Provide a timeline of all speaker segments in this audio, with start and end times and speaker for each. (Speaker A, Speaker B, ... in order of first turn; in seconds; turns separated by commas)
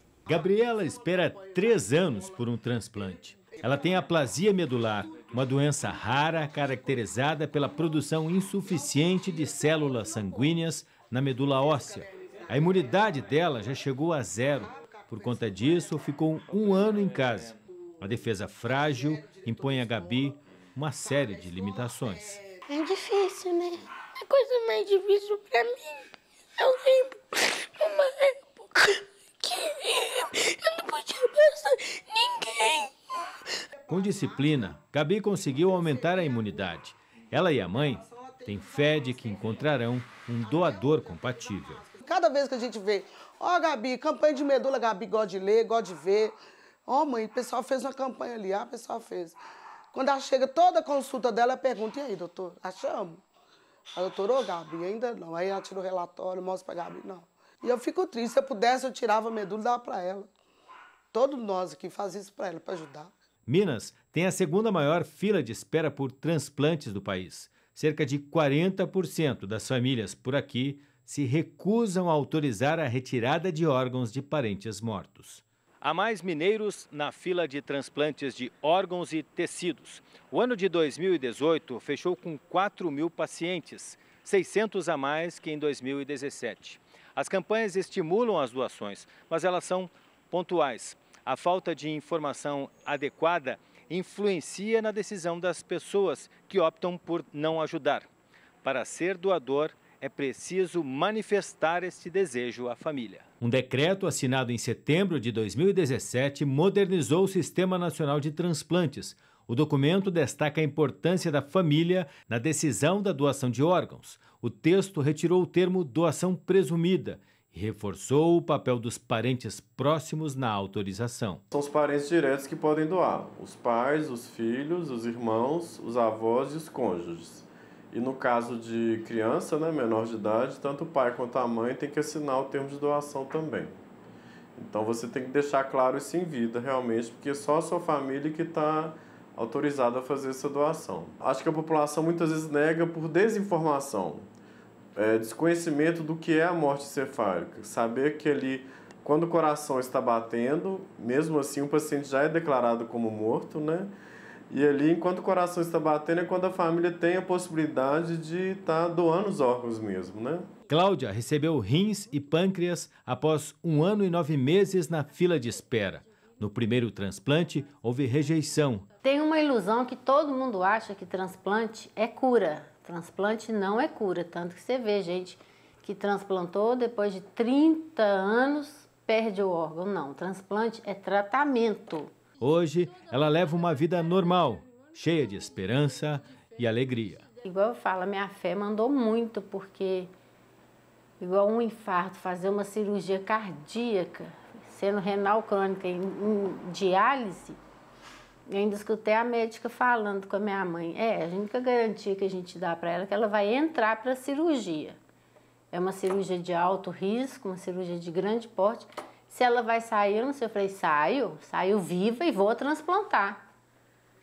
Speaker A: 0.3-22.4, Speaker B: 22.7-26.0, Speaker B: 26.6-32.9, Speaker A: 33.9-41.9, Speaker C: 42.0-49.4, Speaker C: 49.9-53.2, Speaker C: 54.0-60.3, Speaker C: 61.1-63.1, Speaker A: 63.5-98.1, Speaker A: 98.6-121.4, Speaker D: 121.5-133.8, Speaker D: 134.6-144.3, Speaker D: 145.0-153.9, Speaker D: 154.5-160.5, Speaker A: 160.7-168.9, Speaker E: 169.0-182.1, Speaker A: 182.4-187.3, Speaker E: 187.4-190.1, Speaker E: 191.2-197.6, Speaker E: 198.5-205.0, Speaker E: 205.7-213.4